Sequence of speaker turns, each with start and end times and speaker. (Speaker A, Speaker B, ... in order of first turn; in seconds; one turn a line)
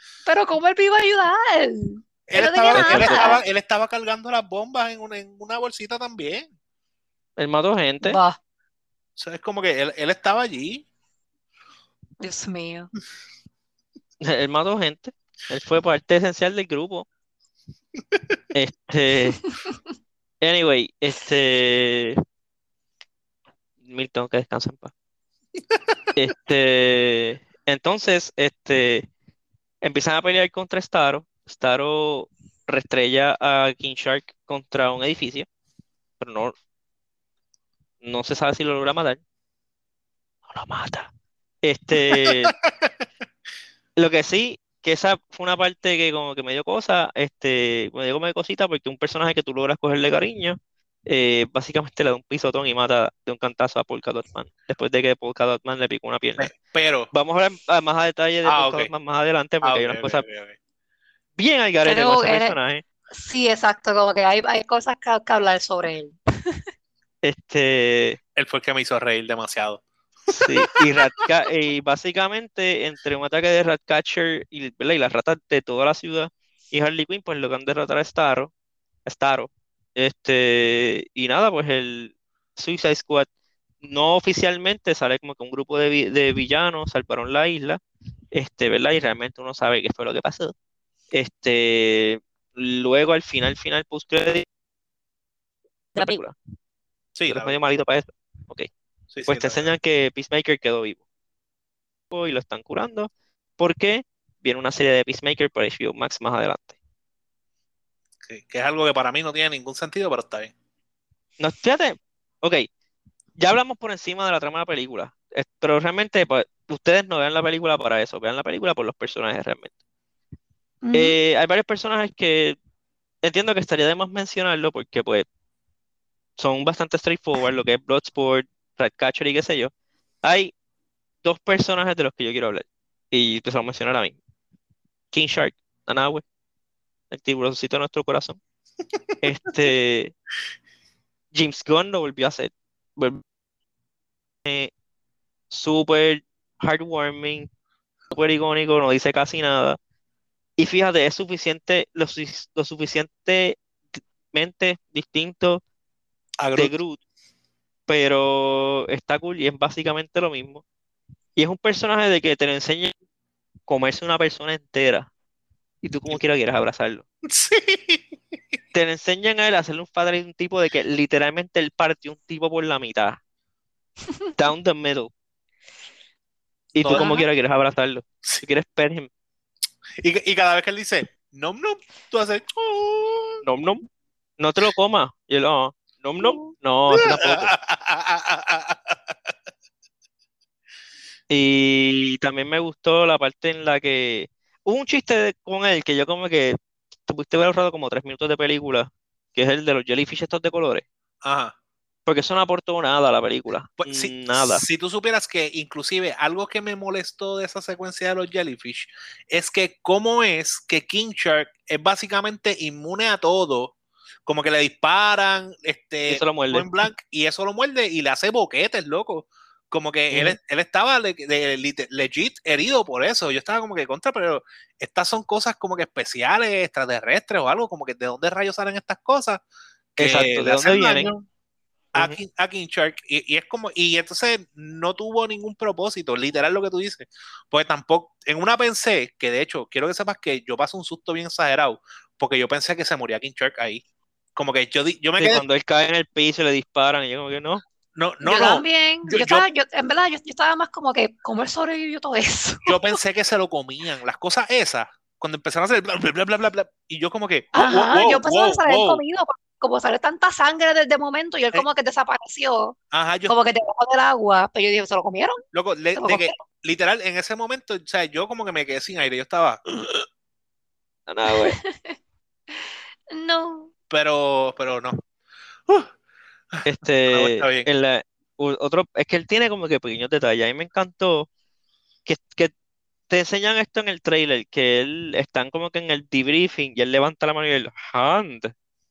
Speaker A: 0.2-3.4
Speaker B: 2.3-6.5
Speaker C: 2.7-3.3
Speaker C: 7.4-8.2
Speaker A: 8.0-8.4
Speaker B: 9.2-10.8
Speaker A: 12.2-12.9
Speaker C: 14.2-17.1
Speaker C: 18.5-19.4
Speaker A: 19.4-19.8
Speaker C: 20.4-22.2
Speaker C: 23.8-24.9
Speaker B: 25.7-25.9
Speaker C: 26.1-29.1
Speaker C: 29.8-35.5
Speaker C: 36.2-36.5
Speaker C: 38.0-39.2
Speaker C: 40.5-41.1
Speaker C: 41.6-42.5
Speaker B: 42.1-42.9
Speaker C: 44.0-56.5
Speaker B: 56.4-57.1
Speaker C: 57.1-60.2
Speaker B: 58.4-58.9
Speaker B: 59.6-60.6
Speaker C: 61.4-62.8
Speaker A: 61.8-62.5
Speaker A: 63.1-66.2
Speaker C: 67.2-68.2
Speaker B: 68.3-69.8
Speaker C: 70.3-78.5
Speaker B: 70.4-70.7
Speaker C: 79.0-83.3
Speaker C: 83.8-87.8
Speaker C: 88.3-90.5
Speaker C: 91.1-94.4
Speaker C: 96.0-96.3
Speaker B: 97.2-97.5
Speaker C: 97.3-98.7
Speaker B: 99.1-99.7
Speaker C: 99.3-101.0
Speaker C: 102.1-106.7
Speaker B: 108.2-110.5
Speaker C: 111.4-112.7
Speaker C: 113.4-119.7
Speaker A: 120.8-121.1
Speaker C: 120.9-122.6
Speaker C: 123.2-125.2
Speaker C: 126.4-129.7
Speaker C: 130.2-130.5
Speaker C: 131.2-134.2
Speaker C: 135.1-136.2
Speaker C: 137.1-138.4
Speaker C: 139.2-140.1
Speaker C: 141.3-143.2
Speaker C: 144.4-144.7
Speaker C: 145.5-147.5
Speaker C: 148.1-149.8
Speaker C: 150.6-155.6
Speaker B: 156.4-156.7
Speaker C: 156.6-157.0
Speaker C: 157.9-160.6
Speaker C: 161.4-162.9
Speaker C: 163.7-165.1
Speaker C: 165.8-167.0
Speaker B: 167.2-168.4
Speaker C: 168.7-173.2
Speaker C: 174.3-175.1
Speaker C: 176.7-179.1
Speaker B: 176.8-177.1
Speaker A: 176.9-177.2
Speaker B: 180.0-183.4
Speaker C: 183.4-183.8
Speaker C: 184.4-187.5
Speaker A: 186.2-186.5
Speaker B: 186.9-189.3
Speaker C: 191.3-200.8
Speaker B: 201.2-201.5
Speaker C: 202.1-204.6
Speaker B: 203.8-213.7
Speaker B: 214.2-229.4
Speaker C: 216.1-216.7
Speaker C: 220.1-220.4
Speaker C: 230.0-231.1
Speaker B: 230.0-231.2
Speaker B: 231.9-243.8
Speaker B: 244.3-245.4
Speaker C: 245.2-247.6
Speaker B: 247.9-249.4
Speaker A: 248.2-252.9
Speaker B: 252.7-259.0
Speaker A: 257.5-262.8
Speaker B: 262.9-263.3
Speaker A: 263.3-265.4
Speaker B: 265.5-270.1
Speaker A: 265.9-266.4
Speaker C: 271.1-271.6
Speaker A: 271.3-271.9
Speaker A: 273.1-273.7
Speaker B: 273.9-275.0
Speaker B: 276.5-277.7
Speaker C: 276.6-281.3
Speaker C: 282.1-282.5
Speaker C: 283.1-288.5